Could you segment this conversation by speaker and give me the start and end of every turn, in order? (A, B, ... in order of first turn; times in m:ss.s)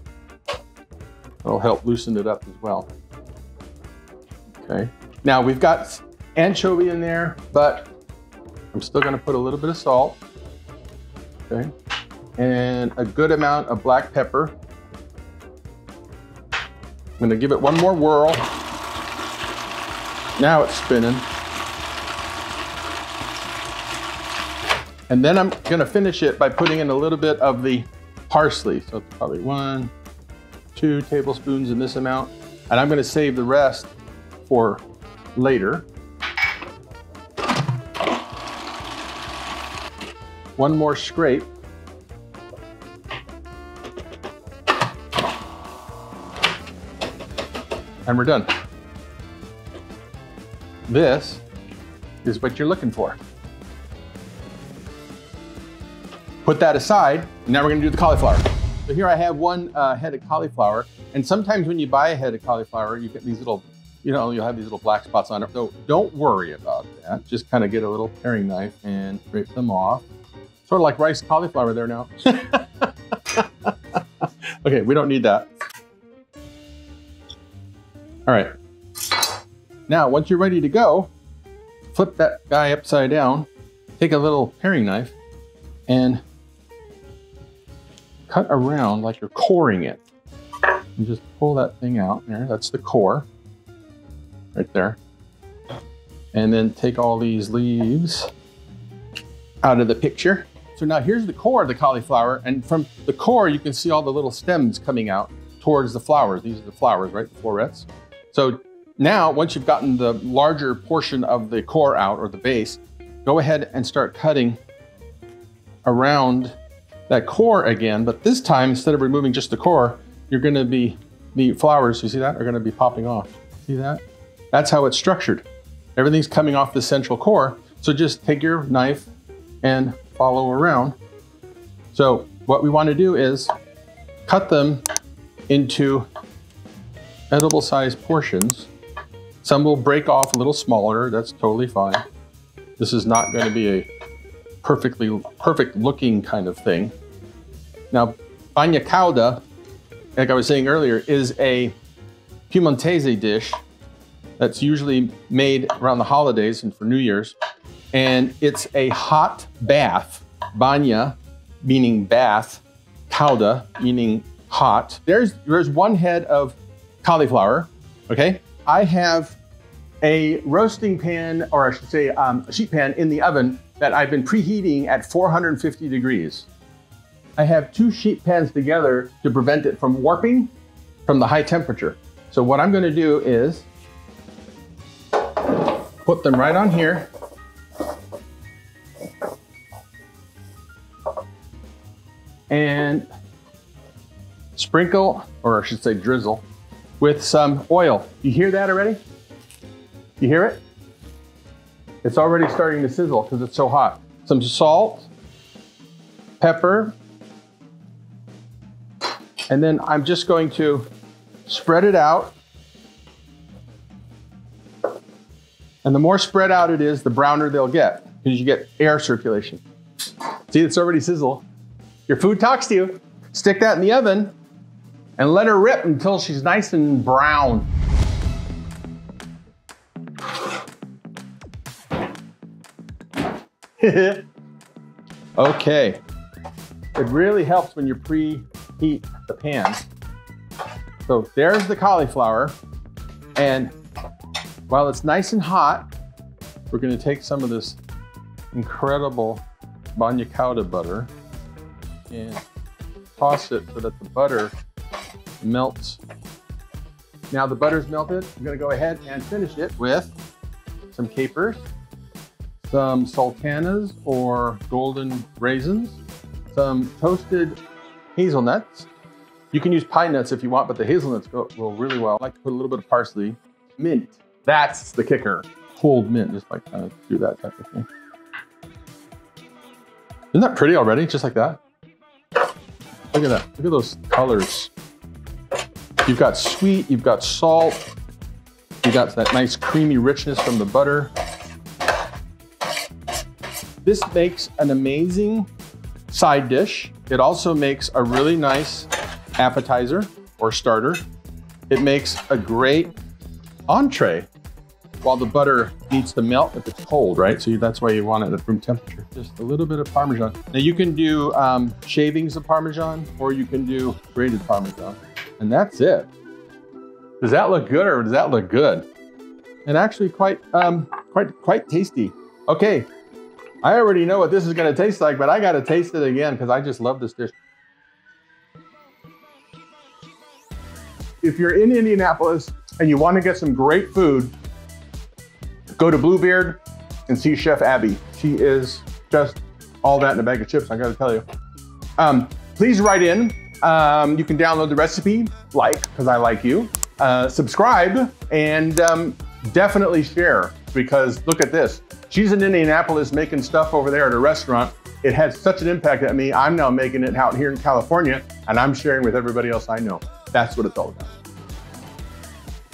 0:01.4-0:02.9 A
0:04.6-0:07.9 A
0:08.7-0:10.2 A
0:12.4-0:14.6 A
0:17.2-0:18.5 A
0:20.4-0:21.3 A
0:25.1-0:29.9 A
0:30.8-0:33.9 A
0:34.4-0:34.8 A
0:35.3-0:35.9 A
0:40.6-0:41.5 A
0:48.1-0:48.5 A
0:50.9-0:51.4 A
0:52.2-0:53.2 A
0:56.4-1:10.0 A
1:10.7-1:15.5 A
1:18.3-1:18.5 A
1:19.9-1:21.1 A
1:21.9-1:25.2 A
1:25.9-1:26.2 A
1:28.3-1:30.0 A
1:31.0-1:33.3 A
1:34.5-1:35.0 A
1:36.3-1:38.3 A
1:39.6-1:54.6 A
1:55.8-1:56.6 A
1:57.1-2:09.1 A
2:09.6-2:11.0 A
2:11.9-2:13.5 A
2:14.3-2:14.8 A
2:15.5-2:16.1 A
2:17.3-2:18.7 A
2:19.4-2:22.0 A
2:22.8-2:23.9 A
2:24.6-2:27.0 A
2:27.9-2:29.4 A
2:30.2-2:31.8 A
2:32.5-2:33.6 A
2:34.4-2:37.3 A
2:37.9-2:49.4 A
2:50.0-2:56.5 A
2:57.4-3:00.5 A
3:01.0-3:03.7 A
3:05.7-3:07.1 A
3:12.5-3:13.1 A
3:14.6-3:16.4 A
3:17.0-3:19.0 A
3:20.2-3:20.6 A
3:22.0-3:25.1 A
3:26.4-3:27.0 A
3:29.5-3:30.8 A
3:31.5-3:32.4 A
3:35.8-3:39.6 A
3:40.5-3:41.5 A
3:42.1-3:44.3 A
3:45.2-3:47.7 A
3:53.8-3:54.3 A
3:55.4-3:56.0 A
3:57.0-3:59.8 A
4:01.0-4:02.5 A
4:03.4-4:03.7 A
4:04.7-4:05.9 A
4:06.7-4:07.8 A
4:08.5-4:09.4 A
4:10.0-4:11.1 A
4:12.1-4:12.4 A
4:13.2-4:14.5 A
4:15.4-4:16.0 A
4:17.3-4:20.1 A
4:20.9-4:21.6 A
4:22.6-4:26.0 A
4:26.5-4:27.6 A
4:28.1-4:28.9 A
4:29.5-4:37.9 A
4:40.3-4:41.6 A
4:43.1-4:44.7 A
4:46.0-4:47.8 A
4:48.8-4:51.1 A
4:53.8-4:55.5 A
4:56.1-5:01.0 A
5:01.7-5:03.0 A
5:03.7-5:04.3 A
5:05.0-5:16.1 A
5:17.2-5:18.9 A
5:19.6-5:22.9 A
5:23.6-5:27.4 A
5:31.2-5:34.3 A
5:35.8-5:41.2 A
5:42.0-6:01.1 A